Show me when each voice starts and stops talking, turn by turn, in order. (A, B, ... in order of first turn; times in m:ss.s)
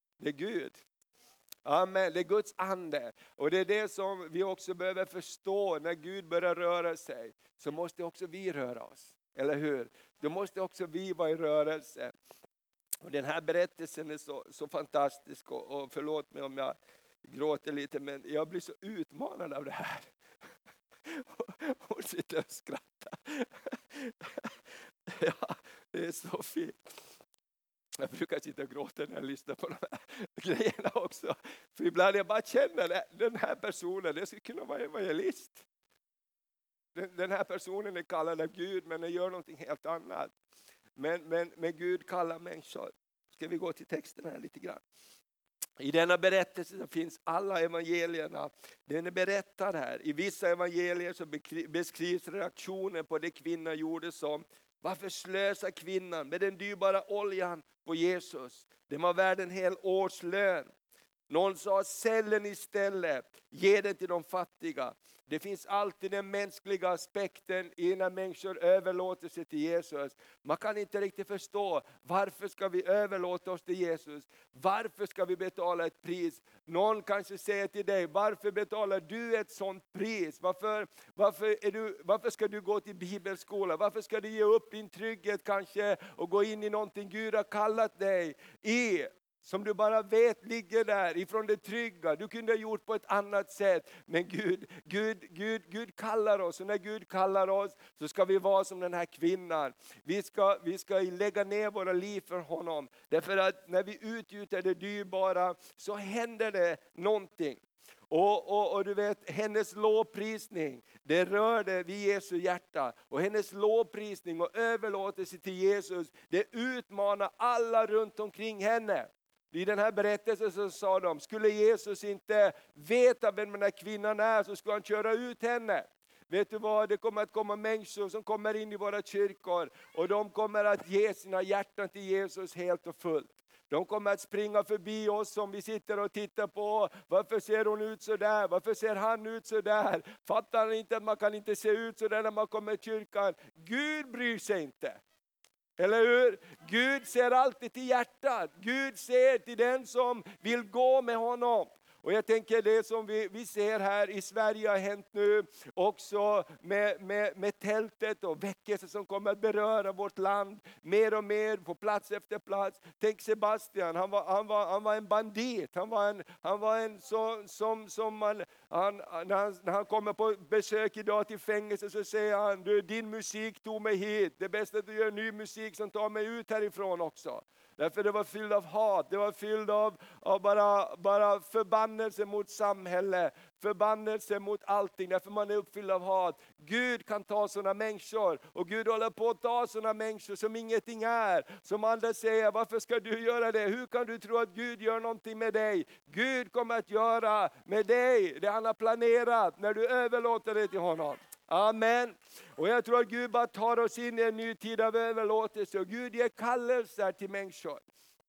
0:00.2-0:00.8 A
0:01.6-0:12.1 A
0:13.0-0:20.1 A
0:21.1-0:24.6 A
0:25.1-0:26.8 A
0:28.0-0:35.7 A
0:37.0-0:40.3 A
0:41.0-0:44.8 A
0:45.8-1:00.7 A
1:01.3-2:25.0 A
2:25.8-3:27.8 A